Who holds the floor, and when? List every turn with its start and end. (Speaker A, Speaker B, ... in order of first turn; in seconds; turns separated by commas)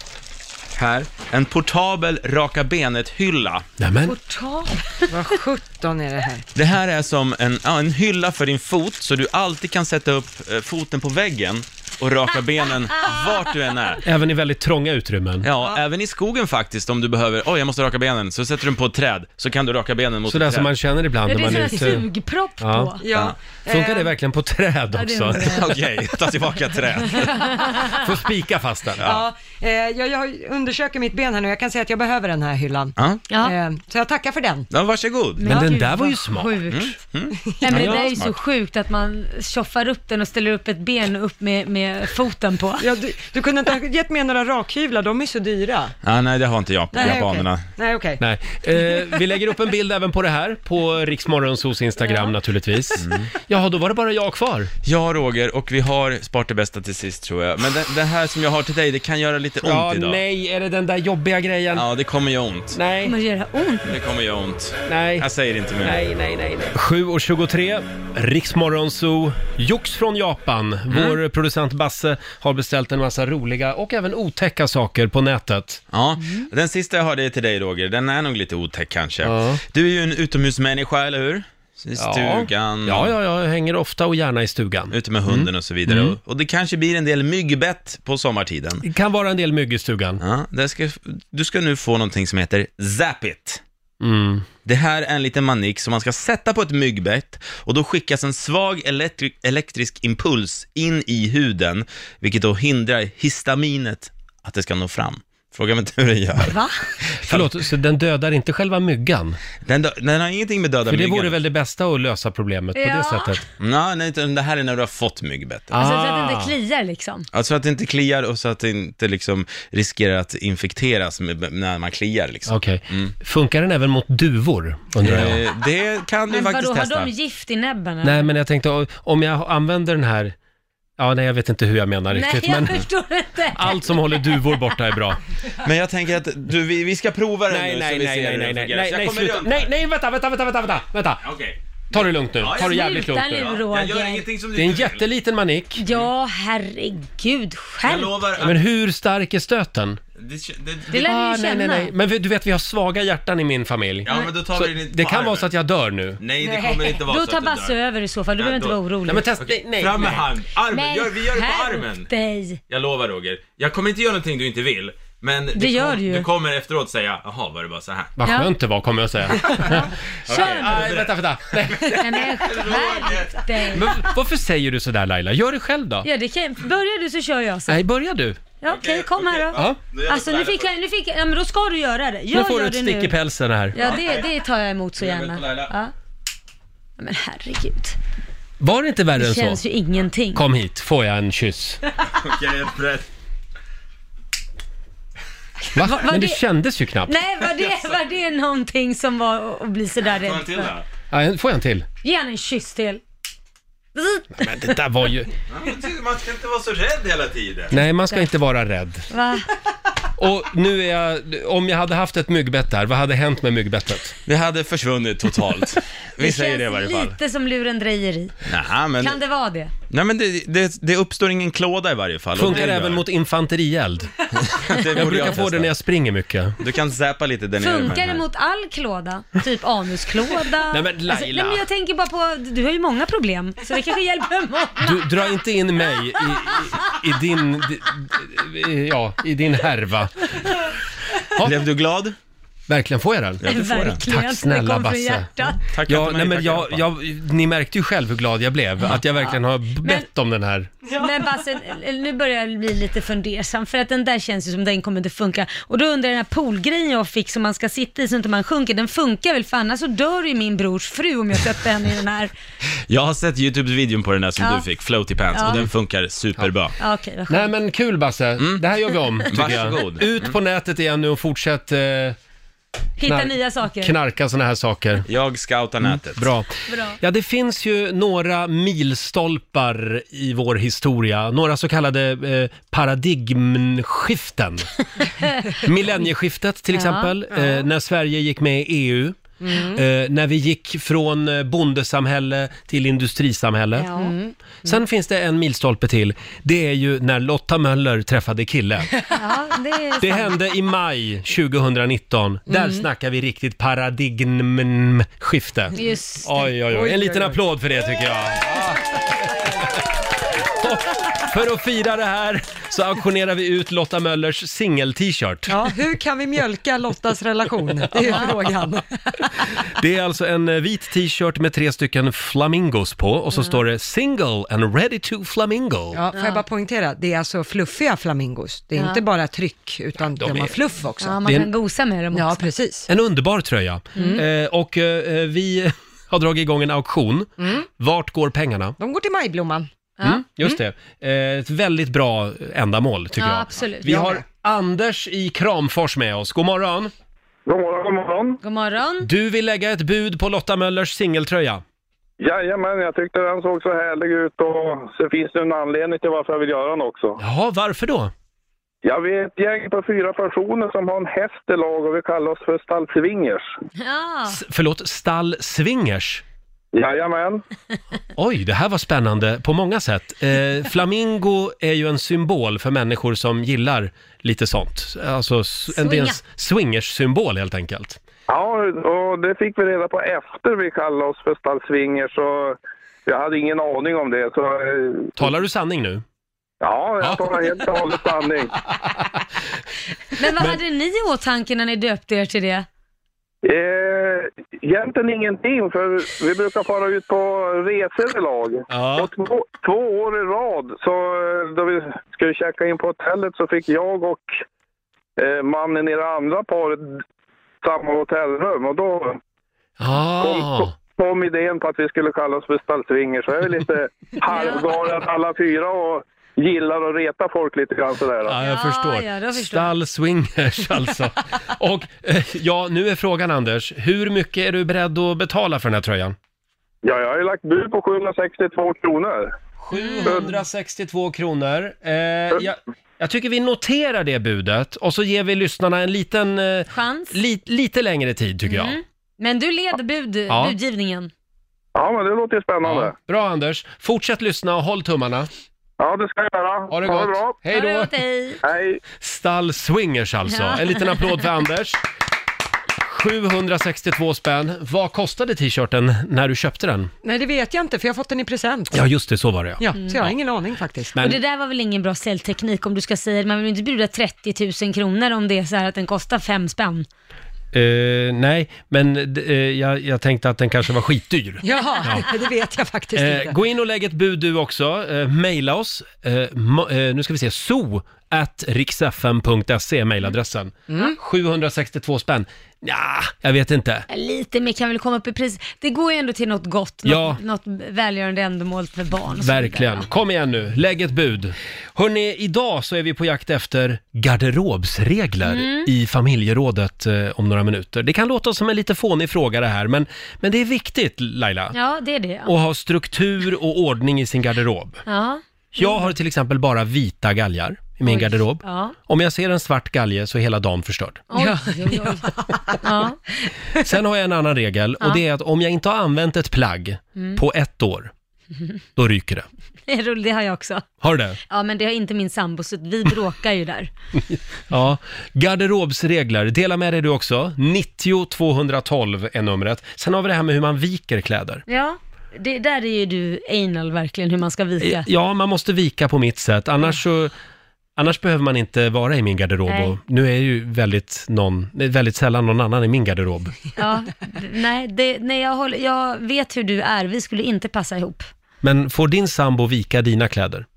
Speaker A: 0.8-3.7, Speaker B: 3.8-4.2, Speaker C: 4.1-6.5, Speaker A: 6.5-14.0, Speaker B: 14.0-15.5, Speaker A: 15.4-20.7, Speaker B: 20.3-22.1, Speaker D: 21.3-23.0, Speaker B: 22.6-22.9, Speaker C: 23.0-24.1, Speaker B: 23.7-25.6, Speaker D: 24.9-25.7, Speaker A: 25.4-27.4, Speaker D: 27.1-28.0, Speaker B: 27.9-29.0, Speaker A: 29.0-29.3, Speaker C: 29.0-34.7, Speaker A: 33.0-33.2, Speaker D: 33.3-33.5, Speaker A: 34.7-35.6, Speaker D: 35.4-36.9, Speaker B: 35.4-36.7, Speaker A: 36.7-38.3, Speaker D: 37.6-42.9, Speaker B: 37.7-38.0, Speaker C: 42.8-45.9, Speaker A: 46.0-47.7, Speaker C: 46.9-48.2, Speaker B: 48.2-54.7, Speaker A: 53.0-53.3, Speaker A: 54.8-60.2, Speaker B: 59.6-61.9, Speaker A: 61.7-62.8, Speaker B: 62.7-63.1, Speaker D: 63.0-63.9, Speaker A: 63.9-66.0, Speaker B: 64.9-65.3, Speaker B: 65.8-75.8, Speaker A: 70.9-71.2, Speaker A: 75.9-83.1, Speaker B: 79.2-79.6, Speaker B: 82.0-86.2, Speaker A: 84.9-88.8, Speaker B: 88.8-90.2, Speaker A: 90.2-93.6, Speaker B: 94.0-94.5, Speaker A: 94.7-107.6, Speaker D: 106.5-106.9, Speaker B: 107.2-109.4, Speaker A: 109.7-111.4, Speaker B: 110.9-113.4, Speaker D: 112.8-113.4, Speaker A: 113.6-115.8, Speaker B: 115.7-116.5, Speaker D: 115.8-117.3, Speaker A: 117.3-123.2, Speaker B: 122.5-125.4, Speaker A: 125.0-127.1, Speaker D: 126.3-128.3, Speaker B: 128.0-130.3, Speaker B: 131.0-132.8, Speaker D: 132.1-134.6, Speaker B: 133.6-135.2, Speaker A: 135.6-139.7, Speaker B: 137.5-141.2, Speaker A: 141.2-145.0, Speaker B: 141.9-143.5, Speaker D: 142.5-144.2, Speaker B: 144.6-145.8, Speaker D: 145.8-148.2, Speaker A: 147.8-148.6, Speaker B: 148.4-150.0, Speaker A: 150.2-151.1, Speaker D: 150.9-151.9, Speaker B: 151.0-156.2, Speaker A: 154.1-155.5, Speaker A: 156.2-157.8, Speaker D: 156.4-159.3, Speaker A: 158.4-158.8, Speaker B: 159.1-160.3, Speaker A: 159.4-162.1, Speaker D: 160.7-162.6, Speaker A: 162.7-168.1, Speaker D: 165.6-166.3, Speaker B: 168.2-172.0, Speaker D: 168.2-168.5, Speaker A: 169.4-173.8, Speaker D: 169.5-170.9, Speaker D: 172.0-174.1, Speaker B: 173.7-176.1, Speaker D: 176.0-177.8, Speaker B: 177.7-178.4, Speaker D: 178.6-183.1, Speaker A: 178.7-180.7, Speaker B: 182.3-183.8, Speaker D: 183.7-185.9, Speaker A: 183.8-184.4, Speaker A: 185.0-185.7, Speaker D: 187.0-188.0, Speaker B: 188.6-189.6, Speaker D: 189.2-190.4, Speaker B: 190.3-191.8, Speaker A: 192.1-193.1, Speaker B: 195.8-197.2, Speaker D: 195.8-196.4, Speaker D: 197.1-200.7, Speaker A: 200.1-200.9, Speaker B: 201.1-201.9, Speaker D: 202.0-203.0, Speaker D: 203.9-204.5, Speaker B: 204.3-205.3, Speaker A: 205.5-207.7, Speaker B: 207.7-209.1, Speaker D: 207.7-208.3, Speaker D: 209.1-209.5, Speaker B: 210.2-214.2, Speaker A: 214.3-217.2, Speaker D: 216.2-218.4, Speaker A: 218.5-219.2, Speaker D: 219.0-219.7, Speaker A: 219.9-223.0, Speaker B: 222.3-224.1, Speaker A: 224.3-225.7, Speaker B: 225.0-226.6, Speaker A: 226.6-228.2, Speaker D: 227.6-235.3, Speaker B: 230.7-231.7, Speaker B: 234.8-240.4, Speaker A: 241.4-242.2, Speaker B: 242.7-243.4, Speaker A: 243.4-244.0, Speaker D: 243.4-245.6, Speaker B: 244.0-245.3, Speaker A: 245.7-246.8, Speaker B: 245.9-250.8, Speaker D: 250.9-262.3, Speaker A: 262.9-266.8, Speaker D: 264.4-264.7, Speaker D: 265.3-265.6, Speaker D: 266.8-267.5, Speaker B: 267.3-272.2, Speaker D: 269.3-269.6, Speaker A: 269.3-270.4, Speaker D: 273.0-273.9, Speaker B: 273.1-275.1, Speaker A: 275.1-276.3, Speaker B: 275.9-284.7, Speaker D: 276.7-277.0, Speaker D: 285.0-285.6, Speaker B: 285.6-289.2, Speaker D: 286.7-287.1, Speaker C: 287.4-287.6, Speaker C: 289.4-289.8, Speaker B: 289.8-293.9, Speaker D: 293.8-294.4, Speaker B: 294.6-298.9, Speaker D: 299.1-300.4, Speaker B: 300.0-309.8, Speaker C: 302.5-302.9, Speaker D: 305.8-306.3, Speaker C: 306.7-307.4, Speaker B: 310.4-315.6, Speaker C: 315.5-319.3, Speaker B: 319.8-326.0, Speaker C: 325.9-331.2, Speaker D: 326.1-326.4, Speaker D: 328.8-329.0, Speaker B: 330.1-330.6, Speaker D: 331.0-332.4, Speaker B: 331.2-331.5, Speaker C: 332.1-332.9, Speaker B: 332.9-338.8, Speaker D: 333.9-334.2, Speaker C: 333.9-334.2, Speaker C: 337.4-337.7, Speaker C: 338.8-339.7, Speaker B: 340.0-346.9, Speaker D: 343.2-344.0, Speaker C: 343.8-344.2, Speaker E: 347.5-348.4, Speaker D: 348.4-349.1, Speaker B: 349.0-351.6, Speaker E: 352.2-357.2, Speaker B: 357.2-358.1, Speaker E: 358.8-363.4, Speaker D: 363.8-364.4, Speaker B: 364.3-366.2, Speaker E: 366.7-367.4, Speaker B: 368.2-378.0, Speaker D: 375.7-376.2, Speaker E: 378.3-385.3, Speaker B: 385.2-386.0, Speaker E: 386.6-388.5, Speaker B: 387.0-387.3, Speaker B: 388.7-389.2, Speaker D: 390.2-392.7, Speaker E: 393.4-404.3, Speaker B: 398.7-399.1, Speaker E: 405.2-407.0, Speaker E: 407.6-409.2, Speaker B: 409.8-410.7, Speaker E: 410.2-418.4, Speaker D: 414.3-414.6, Speaker B: 418.2-426.1, Speaker D: 418.4-419.7, Speaker E: 426.8-429.3, Speaker B: 429.6-438.8, Speaker D: 429.7-430.3, Speaker D: 436.7-437.2, Speaker D: 438.5-441.1, Speaker B: 440.3-440.6, Speaker E: 441.8-442.9, Speaker B: 442.6-445.3, Speaker E: 445.8-447.4, Speaker B: 446.7-447.9, Speaker D: 447.5-448.4, Speaker E: 448.4-448.8, Speaker B: 449.0-451.8, Speaker D: 450.3-451.0, Speaker B: 452.8-456.9, Speaker C: 457.0-458.9, Speaker B: 458.7-460.1, Speaker C: 459.6-461.0, Speaker D: 461.0-466.9, Speaker B: 467.5-472.1, Speaker C: 471.4-473.4, Speaker B: 472.9-483.9, Speaker C: 480.7-481.0, Speaker D: 483.9-489.9, Speaker B: 486.9-487.2, Speaker B: 489.2-501.6, Speaker D: 495.2-495.7, Speaker D: 501.5-502.3, Speaker B: 502.3-504.8, Speaker D: 504.9-505.9, Speaker B: 505.6-511.0, Speaker D: 507.9-508.8, Speaker D: 511.1-513.0, Speaker C: 511.1-512.8, Speaker B: 513.6-517.9, Speaker D: 517.0-517.2, Speaker B: 518.8-519.3, Speaker D: 519.7-520.7, Speaker B: 520.8-521.2, Speaker D: 521.3-523.7, Speaker B: 524.5-531.4, Speaker D: 531.5-534.9, Speaker B: 534.6-537.1, Speaker B: 537.8-543.4, Speaker D: 539.5-539.8, Speaker D: 543.6-548.1, Speaker B: 548.4-550.5